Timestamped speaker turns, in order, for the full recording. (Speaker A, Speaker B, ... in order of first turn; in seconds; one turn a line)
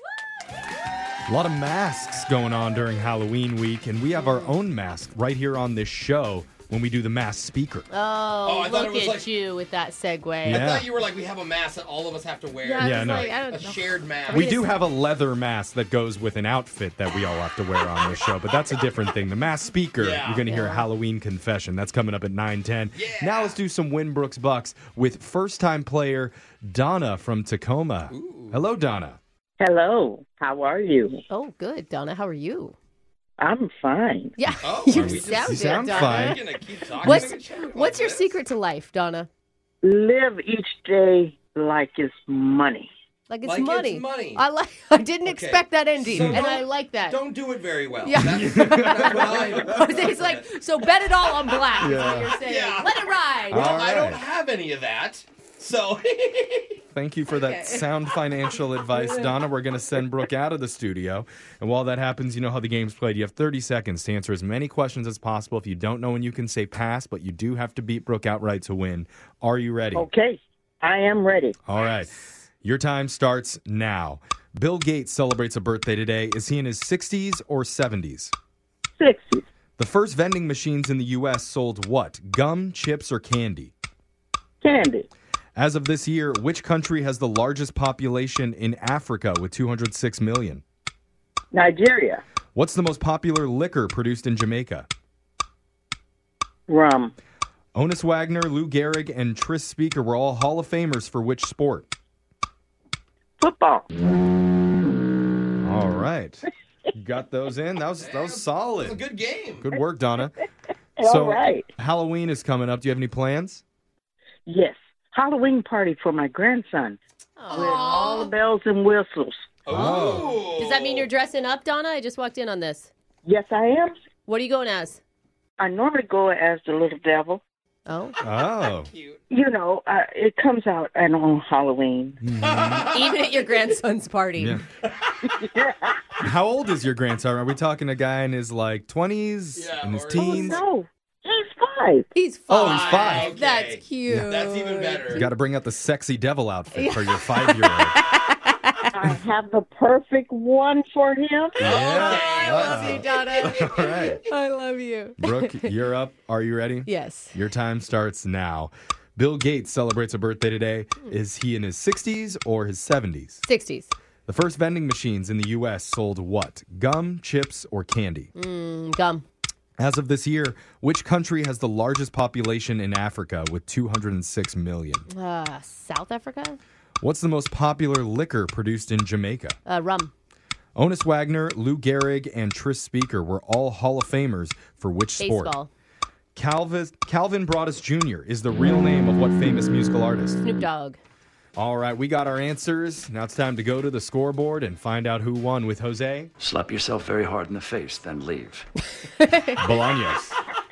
Speaker A: 1.3-7.9
Speaker B: 4.1-4.6
Speaker B: 7.9-10.6
Speaker C: 8.4-9.3
Speaker A: 10.4-10.9
Speaker C: 10.4-14.5
Speaker B: 12.6-14.8
Speaker A: 12.8-13.3
Speaker A: 14.3-29.2
Speaker C: 20.0-20.5
Speaker B: 20.4-20.9
Speaker C: 22.9-23.6
Speaker C: 28.1-28.6
Speaker D: 29.6-31.2
Speaker B: 31.3-32.8
Speaker D: 33.4-34.4
Speaker B: 34.4-36.4
Speaker C: 34.6-38.4
Speaker A: 34.9-36.4
Speaker B: 37.0-39.3
Speaker A: 37.0-37.3
Speaker D: 39.8-42.9
Speaker B: 43.3-47.2
Speaker C: 43.4-44.4
Speaker C: 45.2-51.7
Speaker B: 48.0-53.7
Speaker A: 48.3-49.4
Speaker A: 51.8-52.3
Speaker C: 52.4-56.8
Speaker A: 53.5-54.2
Speaker A: 56.9-70.1
Speaker B: 57.3-57.9
Speaker B: 59.0-59.3
Speaker D: 69.9-71.6
Speaker A: 71.7-78.3
Speaker C: 71.8-72.0
Speaker D: 79.0-79.4
Speaker A: 79.8-83.7
Speaker D: 84.6-85.1
Speaker A: 85.5-90.6
Speaker D: 91.5-92.2
Speaker A: 92.5-94.9
Speaker D: 96.7-97.1
Speaker A: 97.7-101.9
Speaker D: 103.4-103.8
Speaker A: 105.6-109.0
Speaker C: 108.0-109.8
Speaker A: 109.6-110.4
Speaker D: 111.0-111.7
Speaker A: 111.0-113.6
Speaker D: 114.5-117.0
Speaker B: 117.4-118.3
Speaker D: 117.5-119.4
Speaker C: 119.7-121.1
Speaker A: 119.7-120.4
Speaker B: 119.7-122.9
Speaker D: 123.2-123.9
Speaker B: 124.2-125.0
Speaker D: 125.6-127.4
Speaker B: 127.8-128.2
Speaker A: 128.2-128.9
Speaker C: 128.2-129.2
Speaker D: 129.3-132.2
Speaker A: 132.2-132.9
Speaker C: 132.4-133.4
Speaker B: 132.9-134.6
Speaker A: 134.4-134.6
Speaker D: 135.2-136.1
Speaker A: 136.2-140.6
Speaker C: 139.5-140.5
Speaker D: 140.1-142.1
Speaker B: 142.1-145.2
Speaker A: 142.5-143.3
Speaker C: 142.6-145.3
Speaker A: 145.1-148.0
Speaker B: 146.7-148.9
Speaker D: 148.9-151.8
Speaker A: 151.6-154.2
Speaker C: 151.6-154.2
Speaker B: 151.7-155.7
Speaker A: 155.2-163.4
Speaker B: 156.8-157.3
Speaker B: 163.4-163.9
Speaker A: 164.3-168.3
Speaker B: 168.3-169.2
Speaker A: 169.8-175.1
Speaker B: 175.1-176.6
Speaker A: 177.0-179.6
Speaker B: 179.7-180.1
Speaker A: 180.8-185.5
Speaker B: 185.2-185.7
Speaker A: 186.3-190.4
Speaker B: 190.4-191.0
Speaker A: 191.6-196.3
Speaker E: 196.4-198.7
Speaker B: 199.0-199.6
Speaker A: 199.6-200.3
Speaker C: 199.7-200.0